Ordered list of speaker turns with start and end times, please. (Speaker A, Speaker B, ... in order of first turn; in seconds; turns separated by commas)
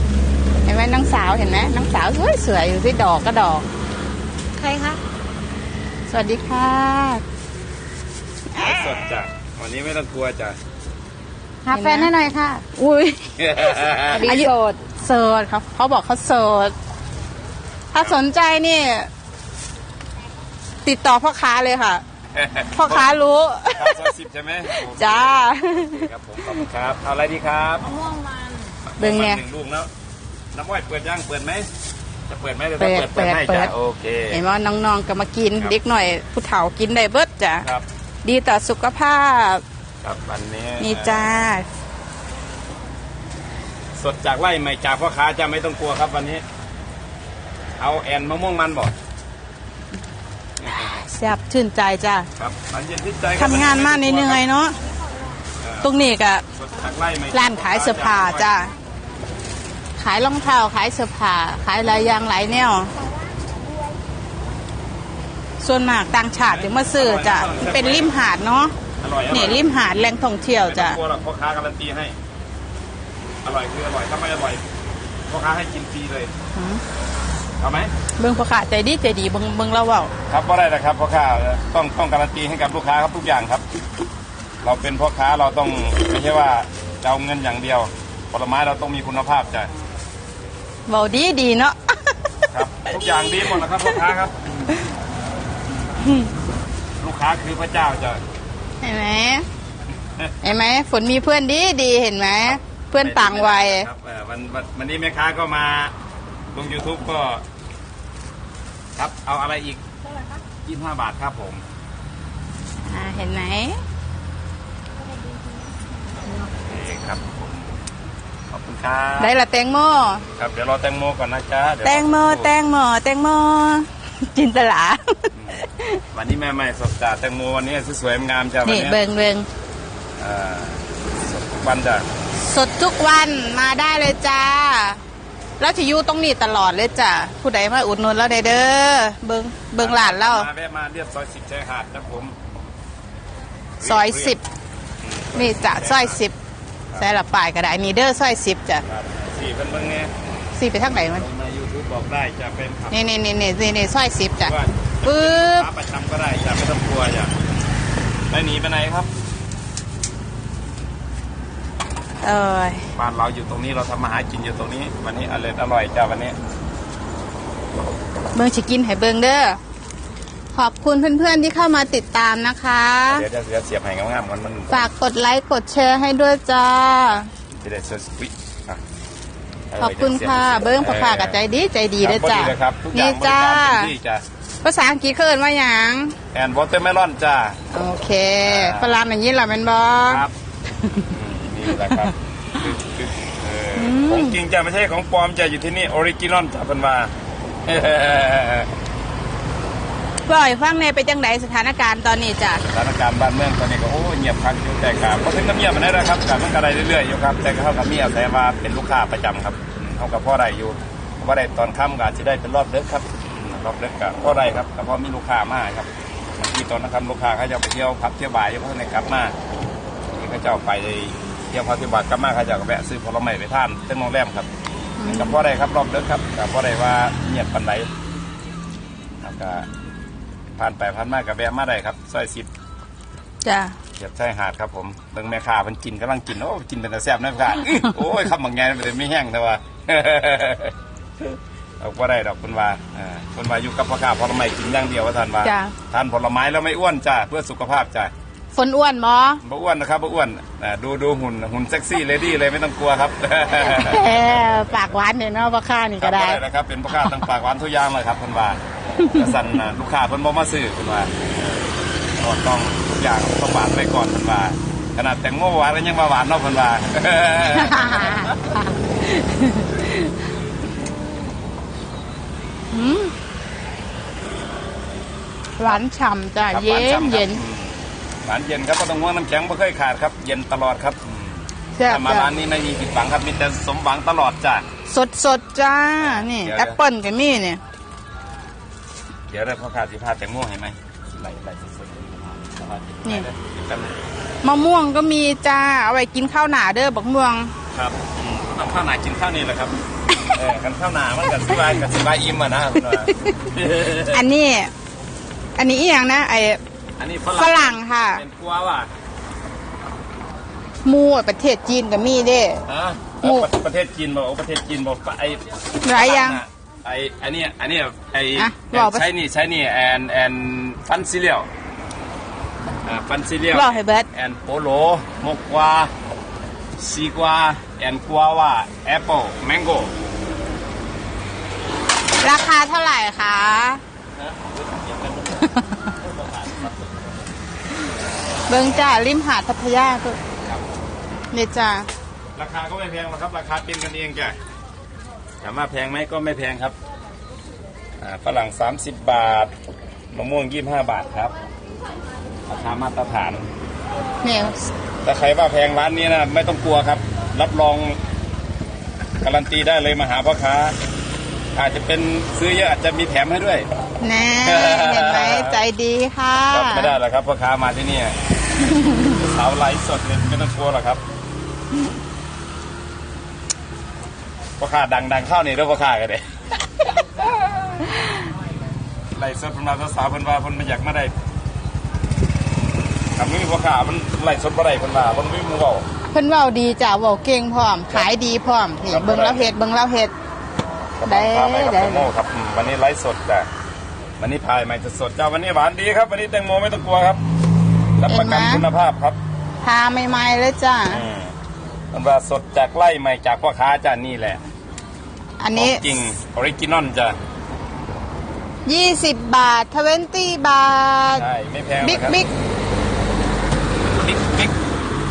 Speaker A: 0.7-3.7, Speaker B: 4.6-5.0, Speaker A: 6.1-7.2, Speaker A: 8.5-9.0, Speaker C: 8.6-10.6, Speaker B: 11.6-12.6, Speaker A: 11.7-12.1, Speaker A: 12.7-13.4, Speaker C: 13.4-14.5, Speaker B: 14.1-14.8, Speaker A: 14.2-16.8, Speaker A: 17.9-19.1, Speaker A: 20.8-22.0, Speaker C: 22.3-23.2, Speaker A: 22.7-24.1, Speaker C: 23.7-28.0, Speaker A: 24.7-26.6, Speaker B: 28.0-28.7, Speaker C: 28.9-29.9, Speaker A: 29.0-29.4, Speaker C: 30.5-31.7, Speaker C: 32.3-34.4, Speaker A: 32.8-33.7, Speaker A: 34.3-37.7, Speaker A: 38.2-39.6, Speaker C: 40.0-41.3, Speaker A: 40.8-41.7, Speaker C: 44.0-46.4, Speaker C: 47.8-48.9, Speaker C: 50.6-51.1, Speaker A: 50.7-52.3, Speaker C: 52.4-54.4, Speaker A: 53.4-54.8, Speaker C: 55.6-55.9, Speaker A: 55.8-56.4, Speaker C: 56.5-58.6, Speaker A: 57.3-58.7, Speaker A: 60.0-62.9, Speaker A: 65.6-68.8, Speaker C: 66.5-68.2, Speaker C: 69.0-69.8, Speaker A: 69.3-71.0, Speaker C: 70.6-72.2, Speaker C: 73.4-74.6, Speaker C: 75.3-76.3, Speaker A: 76.6-76.8, Speaker C: 77.6-77.9, Speaker A: 78.2-80.1, Speaker C: 80.3-83.6, Speaker C: 84.6-89.7, Speaker A: 90.9-92.1, Speaker C: 92.5-94.7, Speaker A: 93.3-94.0, Speaker C: 97.0-98.2, Speaker A: 98.8-99.5, Speaker A: 100.4-103.9, Speaker C: 102.5-105.9, Speaker C: 106.5-107.4, Speaker C: 109.0-109.8, Speaker C: 110.6-111.6, Speaker A: 112.8-113.8, Speaker C: 116.4-117.8, Speaker C: 118.5-119.3, Speaker A: 119.2-120.2, Speaker C: 120.4-122.5, Speaker A: 121.8-126.0, Speaker C: 125.3-129.0, Speaker A: 128.7-129.5, Speaker C: 130.2-132.1, Speaker A: 132.4-135.0, Speaker A: 135.6-140.5, Speaker C: 139.8-142.4, Speaker C: 143.8-144.4, Speaker A: 143.8-144.4, Speaker C: 145.0-146.2, Speaker A: 145.3-146.3, Speaker A: 146.9-148.8, Speaker C: 148.8-150.1, Speaker A: 150.6-151.3, Speaker C: 150.9-153.2, Speaker A: 152.9-155.7, Speaker C: 154.4-157.3, Speaker C: 158.3-159.1, Speaker A: 162.2-162.8, Speaker C: 162.9-166.4, Speaker A: 168.3-169.6, Speaker A: 170.5-173.2, Speaker C: 173.1-174.9, Speaker A: 174.7-177.3, Speaker C: 177.5-178.8, Speaker C: 179.7-181.4, Speaker A: 179.8-183.9, Speaker C: 182.0-184.2, Speaker A: 184.6-186.2, Speaker C: 186.3-187.6, Speaker A: 187.7-190.2, Speaker C: 188.4-189.0, Speaker C: 190.1-190.3, Speaker C: 191.0-197.1, Speaker A: 191.8-192.1, Speaker A: 193.8-194.4, Speaker C: 197.7-198.7, Speaker A: 200.3-202.6, Speaker C: 202.6-219.4, Speaker C: 220.1-224.5, Speaker A: 225.0-225.4, Speaker C: 225.1-227.9, Speaker C: 229.2-229.7, Speaker C: 230.6-232.5, Speaker A: 233.4-233.8, Speaker C: 234.0-248.1, Speaker A: 245.4-245.7, Speaker A: 248.5-249.4, Speaker C: 249.4-254.9, Speaker A: 253.6-256.4, Speaker C: 256.0-261.6, Speaker A: 259.0-259.3, Speaker C: 262.2-268.3, Speaker A: 267.4-270.1, Speaker A: 272.7-273.1, Speaker A: 275.6-277.4, Speaker C: 276.5-284.7, Speaker A: 281.8-282.3, Speaker A: 284.9-287.6, Speaker C: 286.0-286.8, Speaker C: 289.3-294.0, Speaker A: 294.4-297.5, Speaker C: 297.7-299.8, Speaker C: 300.3-304.3, Speaker A: 304.1-304.7, Speaker A: 305.6-306.6, Speaker C: 307.0-308.9, Speaker A: 307.3-308.2, Speaker A: 310.8-312.6, Speaker C: 312.7-321.5, Speaker A: 313.2-313.5, Speaker A: 315.8-316.4, Speaker A: 318.4-319.1, Speaker C: 322.8-325.9, Speaker A: 323.5-324.1, Speaker C: 326.8-329.9, Speaker A: 332.2-333.8, Speaker C: 334.1-336.9, Speaker A: 335.4-335.9, Speaker A: 338.5-340.2, Speaker A: 341.3-341.9, Speaker C: 342.4-344.4, Speaker C: 345.4-346.8, Speaker C: 348.0-349.5, Speaker C: 350.1-351.3, Speaker C: 352.5-353.5, Speaker A: 354.2-354.7, Speaker C: 355.0-358.0, Speaker C: 359.2-360.8, Speaker C: 361.6-363.7, Speaker A: 364.0-367.0, Speaker C: 364.4-365.6, Speaker C: 366.5-368.2, Speaker C: 368.9-371.0, Speaker C: 374.6-376.3, Speaker A: 377.2-378.3, Speaker C: 379.1-381.1, Speaker C: 383.1-385.9, Speaker A: 386.1-390.1, Speaker C: 388.9-389.5, Speaker C: 390.9-393.5, Speaker A: 391.1-392.1, Speaker C: 394.2-397.2, Speaker C: 398.0-399.2, Speaker A: 398.1-398.6, Speaker A: 399.6-401.0, Speaker C: 400.9-401.3, Speaker C: 401.9-404.4, Speaker A: 405.4-405.8, Speaker C: 405.5-407.2, Speaker A: 408.7-411.2, Speaker C: 411.1-412.2, Speaker A: 411.8-412.3, Speaker C: 413.9-414.5